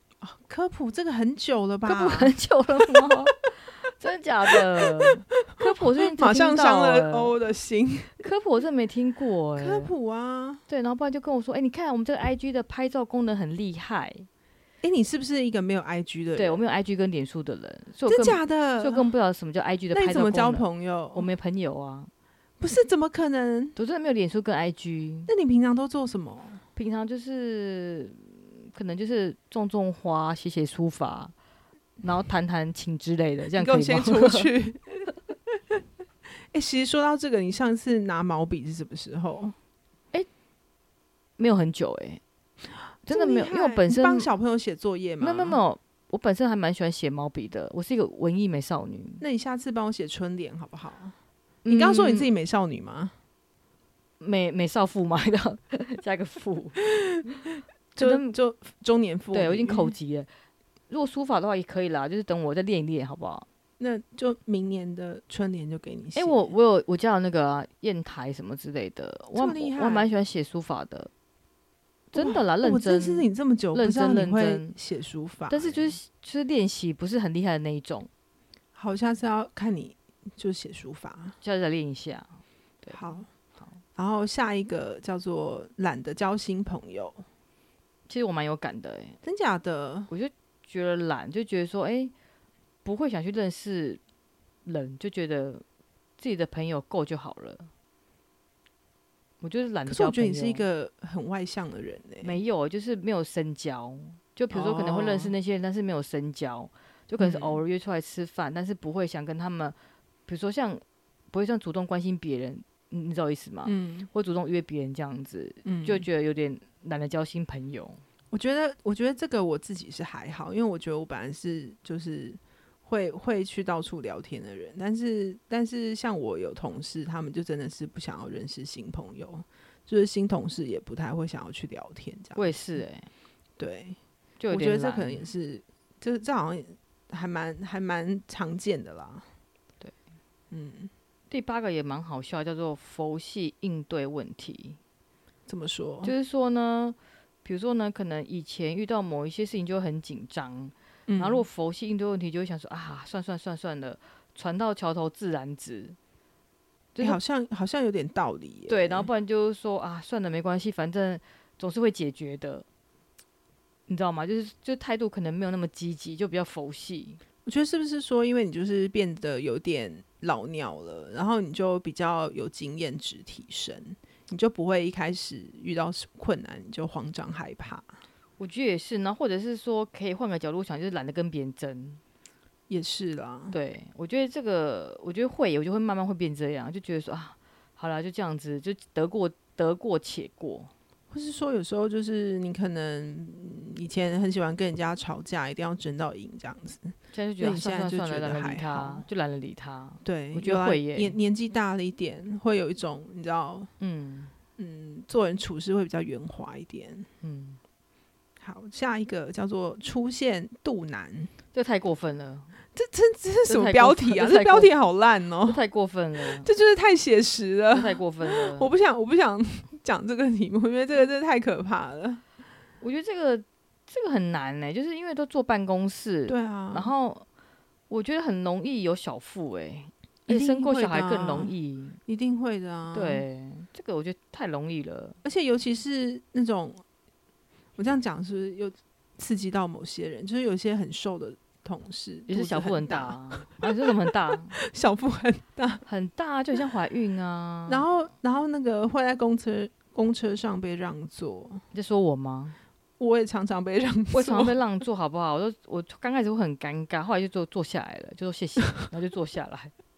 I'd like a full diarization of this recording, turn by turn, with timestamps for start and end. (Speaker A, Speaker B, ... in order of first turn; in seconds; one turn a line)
Speaker A: 0.2-2.3
Speaker B: 1.9-7.4
Speaker A: 4.5-8.2
Speaker B: 8.2-9.9
Speaker A: 9.6-10.6
Speaker B: 10.7-14.3
Speaker A: 14.8-16.6
Speaker B: 16.4-22.1
Speaker A: 18.1-19.1
Speaker A: 19.9-21.3
Speaker A: 22.6-23.8
Speaker B: 23.8-25.3
Speaker A: 25.3-26.6
Speaker B: 26.8-31.3
Speaker B: 32.0-34.5
Speaker A: 33.6-35.8
Speaker A: 36.5-39.5
Speaker B: 41.4-42.2
Speaker B: 43.1-44.3
Speaker A: 43.1-45.6
Speaker B: 45.2-49.2
Speaker A: 49.2-51.1
Speaker B: 51.6-52.3
Speaker A: 51.7-53.1
Speaker B: 54.2-56.8
Speaker A: 57.0-57.2
Speaker A: 58.0-59.9
Speaker B: 58.0-58.4
Speaker B: 59.3-60.3
Speaker B: 60.9-63.5
Speaker A: 63.8-66.5
Speaker B: 66.2-71.1
Speaker A: 69.4-70.1
Speaker B: 72.1-74.8
Speaker A: 72.2-76.0
Speaker B: 75.5-78.1
Speaker A: 78.8-81.4
Speaker B: 81.4-83.0
Speaker A: 82.9-83.3
Speaker A: 84.0-87.2
Speaker B: 88.1-89.2
Speaker A: 89.2-90.1
Speaker B: 90.1-92.1
Speaker B: 92.8-94.0
Speaker B: 94.7-95.6
Speaker B: 96.2-97.7
Speaker B: 99.4-100.6
Speaker A: 99.9-102.4
Speaker B: 102.2-109.8
Speaker A: 104.5-105.3
Speaker A: 107.2-107.6
Speaker B: 110.3-118.0
Speaker A: 113.7-114.1
Speaker A: 115.7-116.1
Speaker A: 118.3-132.5
Speaker B: 132.4-133.1
Speaker A: 133.6-134.0
Speaker B: 134.4-135.3
Speaker A: 134.5-139.3
Speaker A: 140.5-140.9
Speaker B: 141.3-144.8
Speaker A: 145.5-146.1
Speaker B: 146.0-156.0
Speaker A: 151.1-151.4
Speaker B: 156.9-157.2
Speaker A: 157.0-159.1
Speaker B: 158.7-162.7
Speaker B: 163.9-167.2
Speaker A: 167.4-177.9
Speaker B: 178.4-182.0
Speaker A: 182.7-183.6
Speaker B: 183.5-190.7
Speaker A: 191.1-199.1
Speaker B: 197.1-201.2
Speaker A: 200.0-203.7
Speaker B: 203.8-204.3
Speaker A: 204.6-207.1
Speaker B: 207.2-207.6
Speaker A: 208.4-211.3
Speaker B: 211.5-212.5
Speaker A: 212.8-215.6
Speaker B: 213.5-214.7
Speaker B: 215.5-216.5
Speaker A: 216.4-222.2
Speaker B: 217.7-218.7
Speaker B: 222.8-227.2
Speaker A: 226.3-226.9
Speaker B: 227.9-232.0
Speaker A: 230.3-231.5
Speaker A: 232.1-233.2
Speaker B: 232.9-235.2
Speaker A: 235.2-236.8
Speaker A: 237.8-245.8
Speaker B: 242.3-244.6
Speaker B: 245.9-247.9
Speaker A: 247.7-251.6
Speaker B: 251.7-252.6
Speaker A: 253.0-254.6
Speaker B: 254.1-259.7